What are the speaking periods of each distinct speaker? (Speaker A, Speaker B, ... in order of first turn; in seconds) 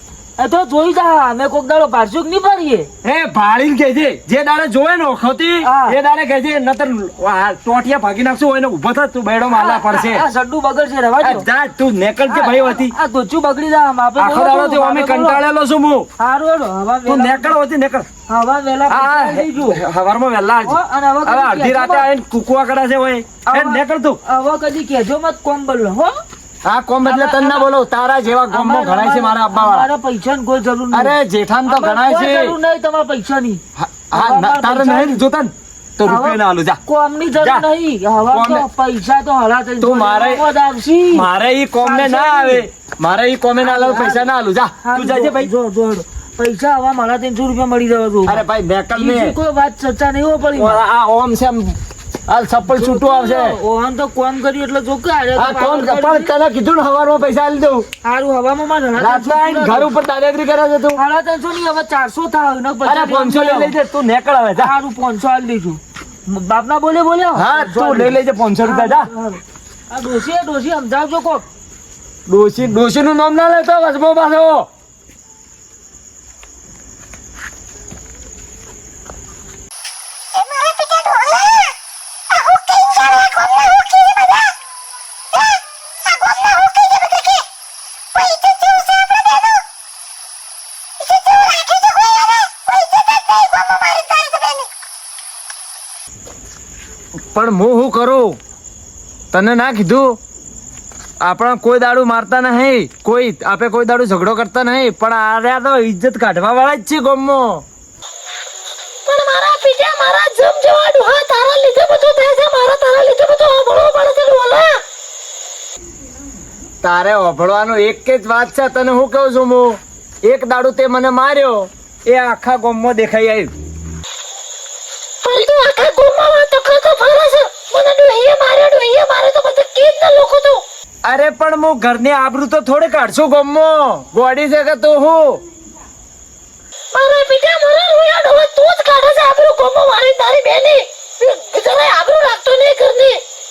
Speaker A: 0.4-2.9, 5.6-6.0, 9.5-11.4, 12.3-15.4, 16.2-17.6, 18.3-19.8, 20.6-22.1, 23.5-26.1, 27.0-27.7, 28.5-33.6, 34.1-35.1, 36.0-41.3, 41.8-42.6, 43.6-44.2, 44.8-50.8, 52.7-56.3, 58.0-59.9, 61.0-63.7, 64.6-71.4
Speaker B: 3.0-10.2, 11.2-12.9, 14.2-16.1, 17.1-18.1, 18.9-24.2, 26.6-29.9, 30.9-32.5, 33.8-36.8, 37.4-37.6, 38.3-38.6, 39.8-40.4, 41.1-45.5, 48.3-49.3, 50.5-51.8, 52.3-53.5, 55.4-57.9, 59.0-61.0, 62.8-64.7, 67.3-69.1, 72.3-74.7, 97.2-98.4, 99.3-100.2, 101.2-107.6, 116.8-123.5, 131.0-135.4
Speaker C: 80.3-81.7, 82.4-84.5, 86.1-87.4, 88.2-89.5, 91.1-94.7, 109.0-114.8, 125.2-130.6, 136.9-143.2